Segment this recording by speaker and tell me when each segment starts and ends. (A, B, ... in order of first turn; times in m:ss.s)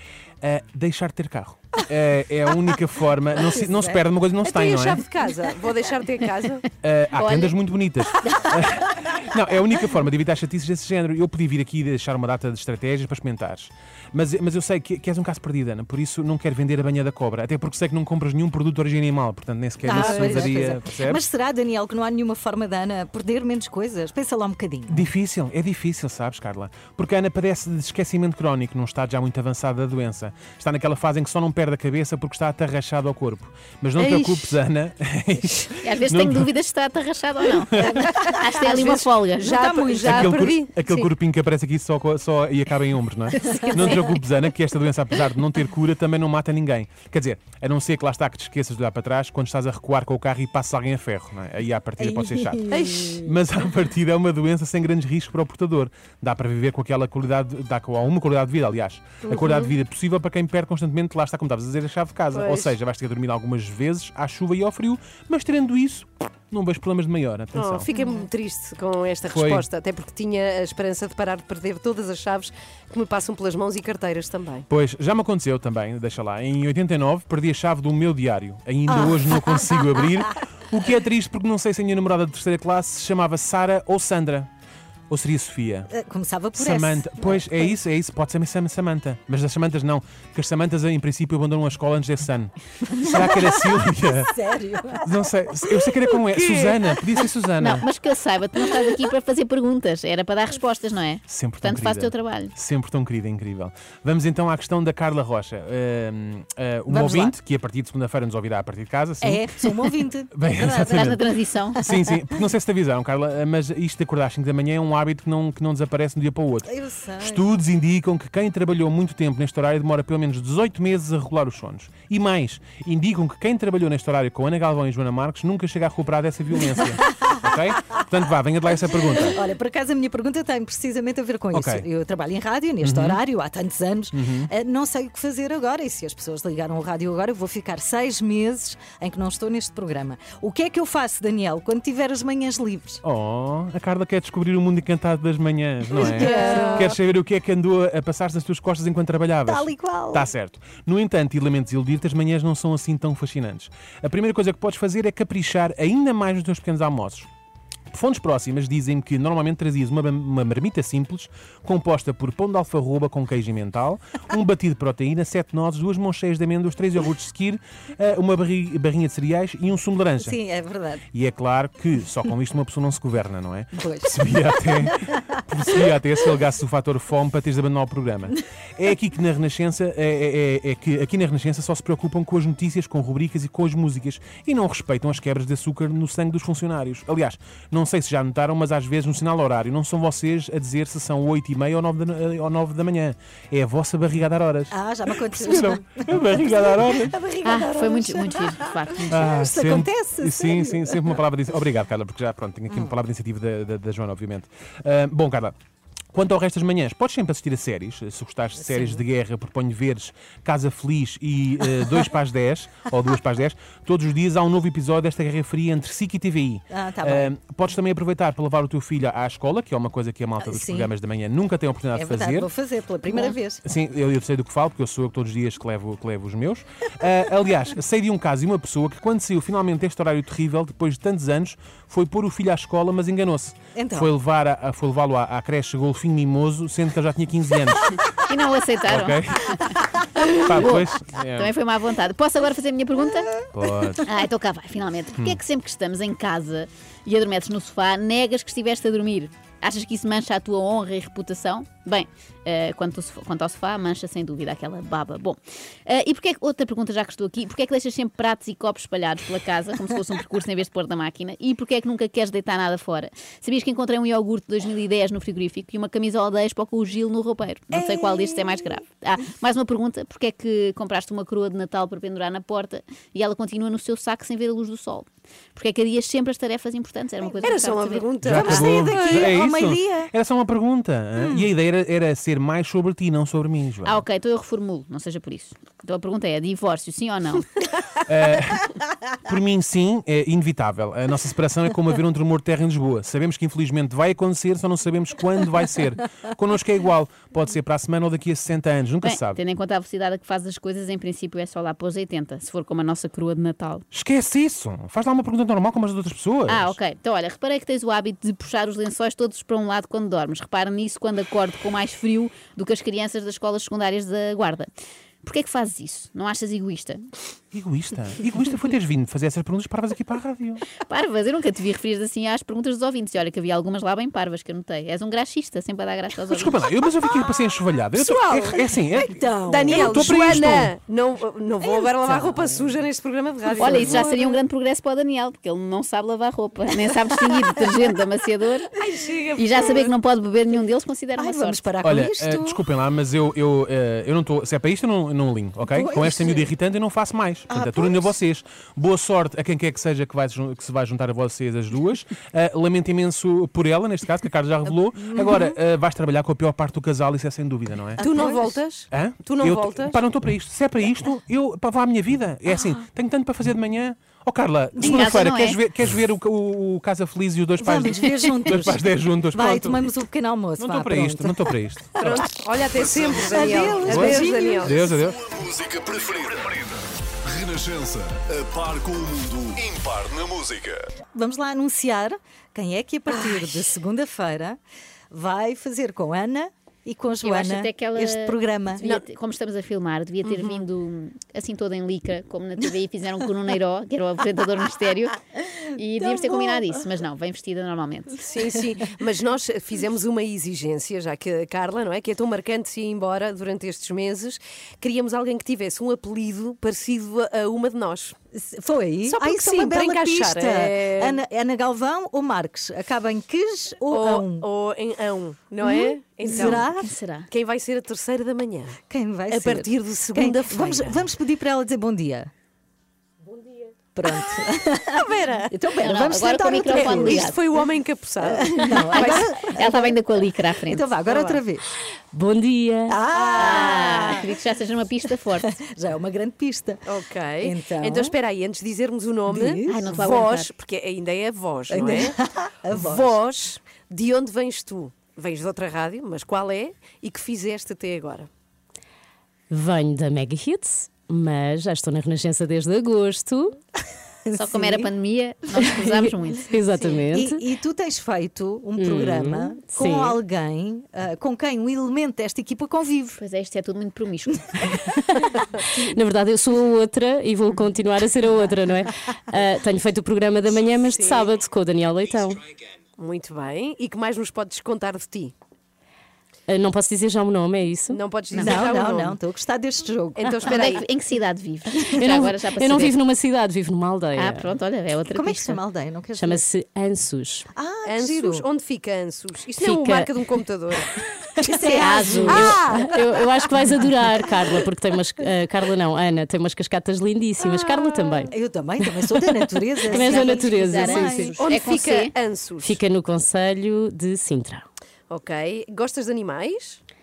0:00.4-0:05.0 A
0:03.3-0:04.0 B
0:04.4-0:06.6 C
0:06.8-0:21.2 A
0:07.1-0:07.6 D
0:08.2-0:08.6 D
0:19.8-0:25.1 B
0:20.0-0:20.5 C
0:24.9-0:36.5 A
0:34.0-0:34.5 C
0:35.8-0:39.6 D
0:37.7-0:38.0 A
0:37.8-0:40.5 B
0:38.6-0:41.0 C
0:40.0-0:52.6 A
0:43.4-0:44.0 B
0:52.0-0:53.4 B
0:52.7-0:53.2 C
0:53.2-1:07.9 A
0:59.2-0:59.7 C
1:02.3-1:02.8 C
1:07.5-1:14.6 C
1:07.9-1:08.2 D
1:09.3-1:09.6 A
1:14.7-1:24.5 A
1:18.9-1:20.1 B
1:25.1-1:25.9 A
1:25.9-1:27.7 B
1:26.6-1:34.3 A
1:32.9-1:35.9 B
1:35.0-1:37.8 A
1:36.3-1:36.8 C
1:37.6-1:42.5 D
1:41.3-1:49.5 A
1:46.9-1:47.3 B
1:49.2-1:51.0 B
1:50.3-1:51.2 A
1:50.8-1:51.8 D
1:51.8-1:56.7 A
1:51.8-1:52.4 B
1:56.7-1:57.4 B
1:57.2-2:09.4 A
2:07.0-2:08.0 B
2:09.2-2:23.0 B
2:11.5-2:11.8 A
2:12.8-2:13.2 A
2:14.1-2:14.5 A
2:23.0-2:37.3 A
2:25.9-2:27.0 B
2:26.2-2:26.8 C
2:26.5-2:26.8 D
2:29.4-2:30.3 B
2:37.9-2:50.4 A
2:50.2-2:51.0 B
2:51.1-3:17.1 A
2:53.7-2:55.8 B
3:14.7-3:21.2 B
3:17.4-3:19.3 D
3:19.1-3:25.5 A
3:26.1-3:42.5 A
3:28.6-3:29.0 B
3:31.6-3:32.1 B
3:36.7-3:37.3 B
3:40.4-3:40.9 B
3:41.9-3:43.6 B
3:43.6-3:58.0 A
3:53.7-3:54.1 B
3:58.2-3:59.2 D
3:58.8-3:59.8 A
4:00.2-4:03.3 D
4:00.4-4:01.5 A
4:03.5-4:04.1 A
4:04.0-4:38.1 D
4:27.7-4:28.7 B
4:37.2-4:37.6 B
4:37.4-4:39.3 C
4:38.2-4:44.0 A
4:38.2-4:40.1 B
4:41.2-4:41.5 B
4:43.8-4:47.5 D
4:48.1-4:48.7 A
4:49.2-4:59.4 A
4:59.0-5:03.8 D
5:03.9-5:06.8 A
5:06.5-5:14.7 D
5:15.2-5:17.1 D
5:17.5-5:20.6 A
5:20.8-5:26.6 D
5:26.3-5:30.7 A
5:27.9-5:28.6 C
5:29.0-5:30.2 B
5:29.4-5:34.0 C
5:31.6-5:32.8 B
5:33.4-5:34.4 B
5:33.6-5:38.7 D
5:36.8-5:37.9 B
5:38.8-5:39.9 C
5:39.4-5:41.6 D
5:41.2-5:42.6 B
5:41.8-5:58.0 A
5:45.6-5:46.5 B
5:47.5-5:48.2 B
5:54.6-5:55.6 B
5:58.0-6:00.0 C
5:58.0-5:58.4 B
5:58.9-6:09.9 A
6:02.5-6:02.8 B
6:04.8-6:05.1 B
6:04.8-6:05.6 D
6:07.6-6:12.3 B
6:10.6-6:12.3 A
6:12.0-6:14.8 C
6:12.8-6:13.8 E
6:13.1-6:14.8 B
6:13.8-6:15.2 A
6:14.6-6:20.8 E
6:21.1-6:24.6 B
6:25.1-6:28.8 B
6:27.2-6:35.2 D
6:30.2-6:30.6 C
6:35.7-6:38.2 D
6:36.0-6:36.8 B
6:38.2-6:48.1 C
6:48.3-6:54.4 B
6:49.0-6:51.2 C
6:53.9-6:56.7 C
6:55.6-6:57.3 D
6:56.3-6:56.9 B
6:57.3-7:01.1 C
6:58.9-7:02.3 B
7:04.0-7:07.6 B
7:05.8-7:07.4 D
7:06.7-7:09.5 C
7:08.2-7:10.0 B
7:08.9-7:10.9 D
7:10.6-7:11.7 B
7:11.1-7:11.4 C
7:12.1-7:13.0 F
7:12.9-7:14.3 B
7:13.1-7:14.2 C
7:13.4-7:15.6 D
7:15.6-7:16.8 B
7:16.9-7:22.2 C
7:17.4-7:18.1 B
7:19.3-7:19.9 B
7:19.7-7:20.5 D
7:21.7-7:23.1 B
7:22.7-7:28.3 C
7:29.5-7:33.5 F
7:34.3-7:34.9 B
7:34.3-7:36.5 D
7:35.8-7:37.4 F
7:36.8-7:43.2 B
7:38.8-7:40.2 F
7:43.2-7:44.8 D
7:45.7-7:52.4 F
7:50.9-7:51.3 C
7:53.0-7:55.3 C
7:56.5-7:58.6 F
7:57.9-7:59.2 C
7:58.3-8:00.3 B
8:00.2-8:00.8 C
8:00.4-8:03.0 D
8:02.0-8:04.5 F
8:04.2-8:05.6 D
8:05.1-8:06.4 B
8:06.2-8:07.5 F
8:07.5-8:08.4 B
8:07.8-8:10.9 C
8:09.6-8:10.1 F
8:11.4-8:13.2 B
8:11.4-8:12.6 D
8:12.3-8:13.0 C
8:12.4-8:21.4 F
8:14.2-8:14.6 B
8:17.4-8:18.3 C
8:18.3-8:21.3 B
8:19.9-8:22.1 D
8:21.4-8:22.8 C
8:22.6-8:24.6 F
8:25.1-8:26.8 C